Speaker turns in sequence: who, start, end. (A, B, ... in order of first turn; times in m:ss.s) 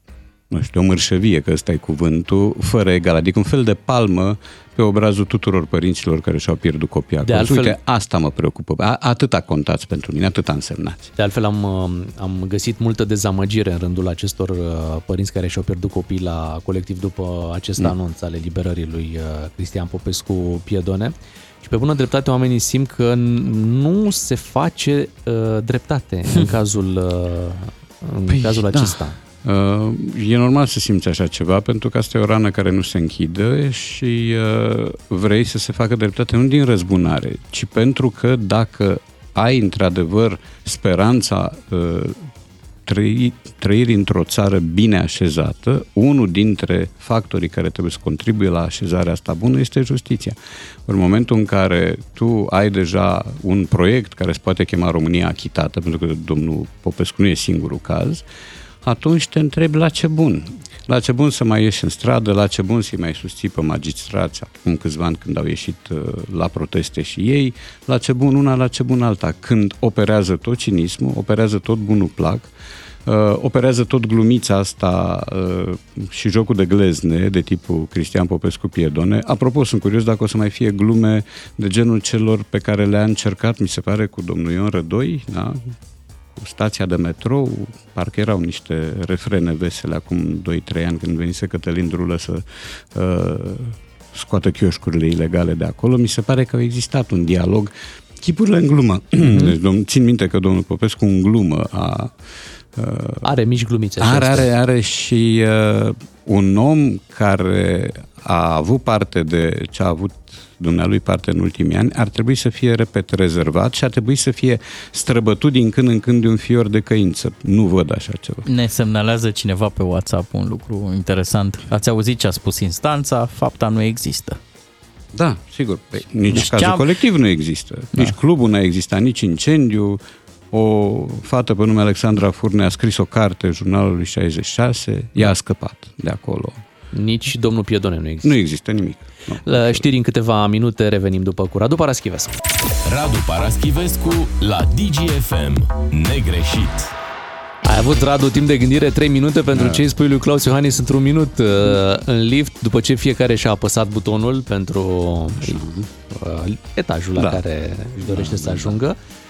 0:00.5-0:11.1 A
0:07.2-0:07.8 B
0:11.2-0:29.2 B
0:28.3-0:42.3 A
0:42.9-0:58.2 A
0:58.8-1:12.5 A
1:13.0-1:25.7 A
1:26.4-1:42.1 A
1:39.3-1:39.5 B
1:42.8-1:43.3 A
1:43.2-1:44.5 B
1:44.0-1:58.5 A
1:58.5-2:04.4 C
2:05.1-2:16.6 A
2:06.3-2:06.9 C
2:16.9-2:18.4 B
2:18.2-2:19.9 A
2:19.4-2:22.4 B
2:22.8-2:26.9 D
2:27.6-2:39.0 B
2:29.5-2:29.8 A
2:35.4-2:35.9 A
2:37.2-2:37.4 A
2:38.0-2:38.8 A